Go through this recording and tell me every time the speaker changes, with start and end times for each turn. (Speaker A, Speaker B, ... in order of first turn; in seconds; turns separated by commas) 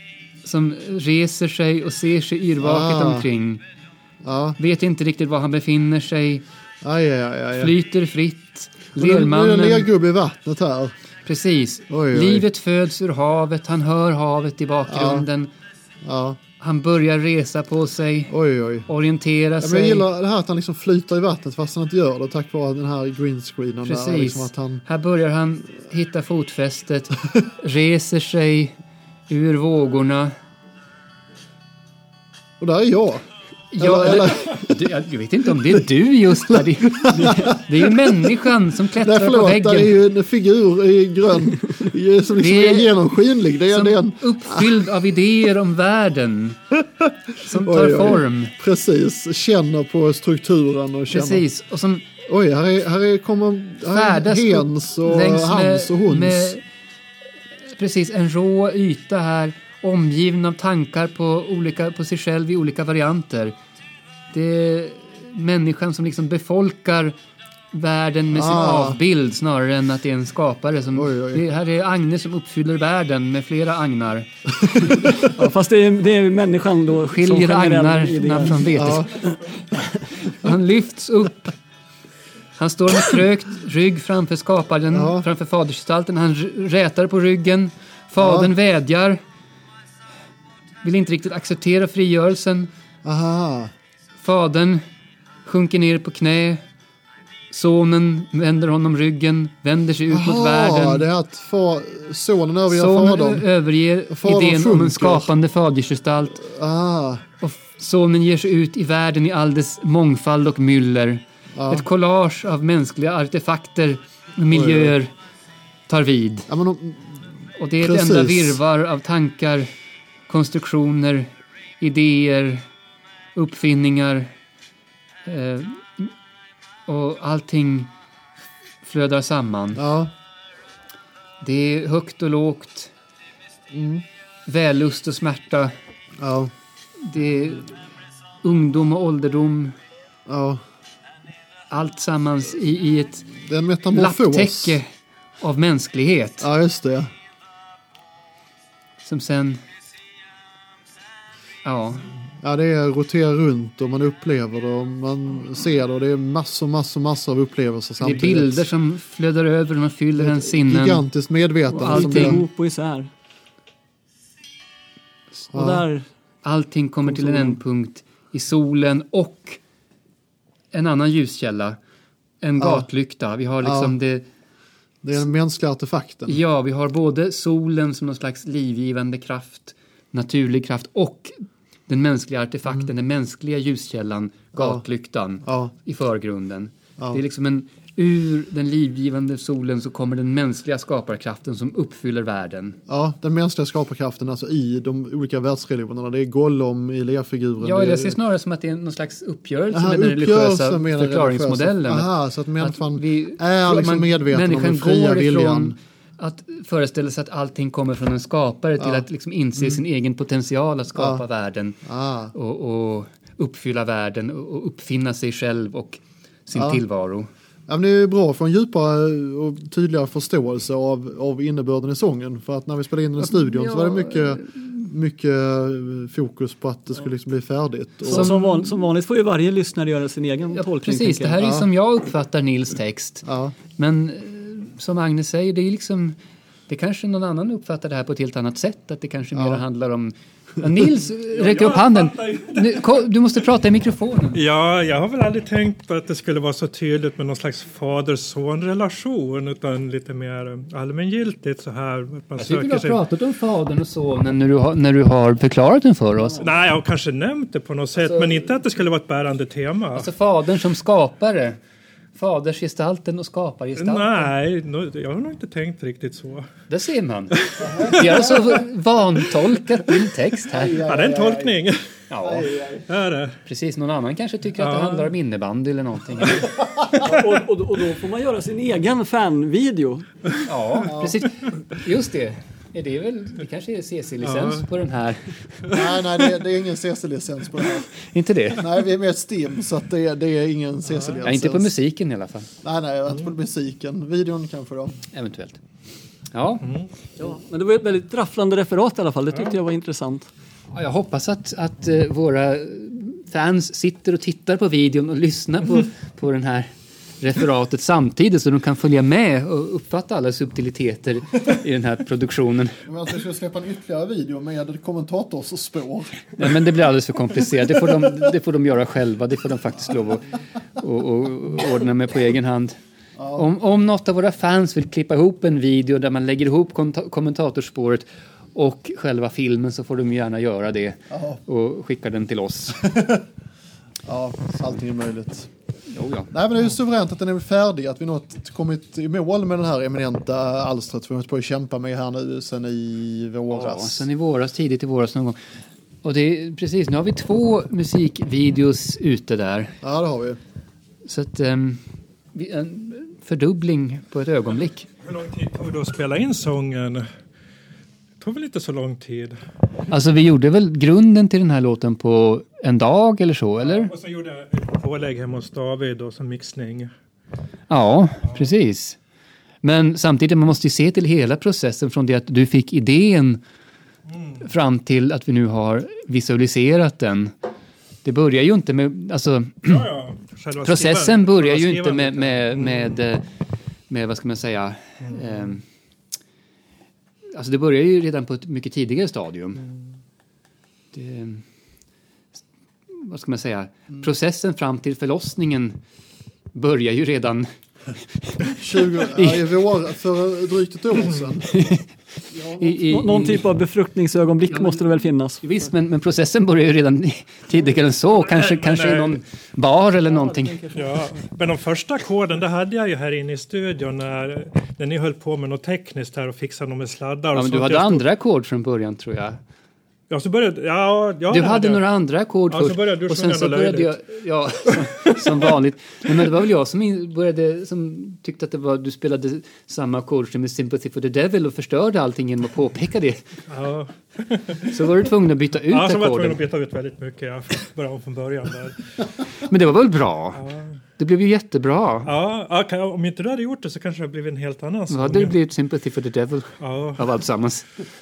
Speaker A: 0.4-3.6, Speaker B: 2.6-3.3, Speaker B: 4.2-4.6, Speaker A: 4.6-6.4, Speaker B: 6.8-7.7, Speaker A: 7.5-9.9, Speaker B: 8.9-10.9, Speaker A: 11.2-15.5, Speaker B: 11.9-12.4, Speaker B: 14.9-15.2, Speaker B: 16.0-16.4, Speaker A: 16.6-18.3, Speaker B: 18.3-18.9, Speaker A: 18.9-20.1, Speaker B: 19.6-24.8, Speaker A: 23.8-28.7, Speaker A: 29.3-30.3, Speaker B: 32.6-33.2, Speaker A: 33.7-40.0, Speaker B: 33.8-34.7, Speaker B: 36.5-38.2, Speaker B: 39.0-44.8, Speaker A: 42.4-43.0, Speaker A: 43.7-46.6, Speaker A: 47.4-48.5, Speaker B: 47.5-51.4, Speaker A: 51.1-52.1, Speaker B: 52.2-56.5, Speaker A: 53.9-56.6, Speaker A: 57.6-63.5, Speaker A: 64.3-67.1, Speaker A: 67.7-74.3, Speaker B: 68.3-69.0, Speaker B: 70.9-71.4, Speaker C: 75.1-78.8, Speaker A: 77.1-79.1, Speaker B: 78.7-79.2, Speaker A: 80.3-81.5, Speaker A: 82.6-89.2, Speaker B: 84.9-85.3, Speaker B: 88.2-88.5, Speaker A: 90.8-92.7, Speaker B: 93.0-93.7, Speaker A: 94.2-94.8, Speaker A: 95.4-96.6, Speaker A: 97.5-101.0, Speaker B: 100.1-103.5, Speaker A: 102.7-106.4, Speaker B: 104.1-105.3, Speaker B: 106.4-107.2, Speaker A: 107.4-115.1, Speaker B: 111.5-111.8, Speaker B: 114.5-115.0, Speaker A: 115.9-116.5, Speaker B: 116.5-117.2, Speaker A: 117.6-119.7, Speaker B: 117.8-118.6, Speaker A: 120.3-121.3, Speaker A: 121.8-122.6, Speaker A: 123.3-124.3, Speaker A: 125.2-126.1, Speaker A: 126.9-127.9, Speaker A: 128.8-129.8, Speaker B: 129.8-130.1, Speaker A: 131.4-132.9, Speaker B: 133.7-134.0, Speaker A: 134.5-135.7, Speaker B: 136.2-136.5, Speaker A: 137.0-137.8, Speaker A: 138.4-139.7, Speaker B: 140.3-140.6, Speaker A: 141.7-143.3, Speaker B: 143.4-144.8, Speaker A: 143.9-144.8, Speaker A: 145.4-146.5, Speaker B: 146.4-147.1, Speaker A: 149.0-149.6, Speaker A: 151.6-152.1, Speaker B: 152.4-158.7, Speaker A: 158.0-161.1, Speaker B: 160.1-162.4, Speaker A: 161.7-162.4, Speaker C: 161.7-163.1, Speaker C: 165.5-166.0, Speaker B: 165.5-165.8, Speaker A: 166.4-169.6, Speaker C: 167.0-167.6, Speaker A: 170.7-171.8, Speaker A: 172.4-174.2, Speaker B: 172.6-172.9, Speaker B: 173.6-173.9, Speaker B: 175.0-176.4, Speaker A: 176.3-181.3, Speaker A: 181.9-192.8, Speaker B: 184.5-184.8, Speaker B: 185.4-185.7, Speaker B: 192.9-198.2, Speaker A: 197.6-211.8, Speaker B: 199.7-205.8, Speaker B: 208.8-209.1, Speaker B: 210.9-211.2, Speaker B: 211.8-212.3, Speaker A: 212.3-217.3, Speaker B: 216.5-216.8, Speaker B: 217.7-228.4, Speaker A: 223.2-224.5, Speaker A: 228.0-228.6, Speaker C: 228.0-231.4, Speaker A: 230.5-236.1, Speaker B: 231.4-231.7, Speaker B: 233.2-233.5, Speaker A: 236.7-244.4, Speaker B: 239.3-239.6, Speaker D: 241.3-243.0, Speaker D: 244.3-253.0, Speaker A: 252.4-256.5, Speaker D: 256.4-260.1, Speaker A: 258.0-258.4, Speaker A: 259.9-261.6, Speaker A: 262.1-264.3, Speaker D: 263.8-266.5, Speaker A: 266.7-270.8, Speaker D: 267.5-268.2, Speaker B: 267.6-268.1, Speaker B: 270.5-271.6, Speaker D: 270.8-271.9, Speaker A: 272.1-272.5, Speaker B: 272.2-272.8, Speaker D: 272.9-273.4, Speaker A: 273.4-276.6, Speaker D: 274.6-275.1, Speaker C: 277.0-280.1, Speaker A: 280.4-285.3, Speaker B: 280.8-281.2, Speaker D: 284.3-284.6, Speaker B: 285.7-287.9, Speaker A: 288.1-288.7, Speaker B: 288.6-291.7, Speaker A: 291.2-292.5, Speaker B: 292.6-295.0, Speaker A: 295.1-295.6, Speaker A: 296.3-296.8, Speaker D: 296.6-296.9, Speaker C: 297.2-300.3, Speaker A: 300.7-306.7, Speaker A: 307.2-312.7, Speaker B: 312.8-316.7, Speaker A: 316.4-322.7, Speaker B: 323.2-323.4, Speaker A: 323.3-332.9, Speaker B: 331.1-331.4, Speaker B: 332.9-333.2, Speaker B: 334.1-335.5, Speaker A: 335.9-336.3, Speaker B: 336.3-344.1, Speaker A: 343.5-345.4, Speaker A: 346.0-349.7, Speaker B: 349.8-350.4, Speaker A: 351.0-351.8, Speaker A: 352.3-354.9, Speaker D: 355.0-357.1, Speaker D: 358.2-359.4, Speaker A: 359.9-363.9, Speaker D: 363.6-366.9, Speaker A: 367.7-369.0, Speaker A: 369.6-373.4, Speaker A: 374.4-377.3, Speaker A: 378.0-379.9, Speaker D: 379.6-383.0, Speaker A: 380.6-383.2, Speaker A: 383.9-385.6, Speaker D: 385.0-385.3, Speaker A: 387.3-389.6, Speaker A: 390.9-391.4, Speaker A: 392.9-395.8, Speaker A: 396.5-397.5, Speaker A: 398.3-399.5, Speaker B: 398.6-401.6, Speaker A: 401.5-401.9, Speaker A: 402.4-403.5, Speaker C: 402.6-405.4, Speaker A: 404.5-404.8, Speaker A: 405.4-410.6, Speaker D: 408.2-409.2, Speaker C: 410.2-410.7, Speaker D: 410.7-418.1, Speaker A: 417.3-419.4, Speaker D: 420.1-421.8, Speaker A: 421.3-433.2, Speaker D: 422.5-423.9, Speaker D: 433.5-435.0, Speaker A: 434.7-436.4, Speaker D: 435.7-438.8, Speaker A: 439.5-440.4, Speaker D: 440.3-440.8, Speaker A: 441.0-442.1, Speaker D: 442.0-445.4, Speaker A: 444.9-447.7, Speaker D: 446.6-447.1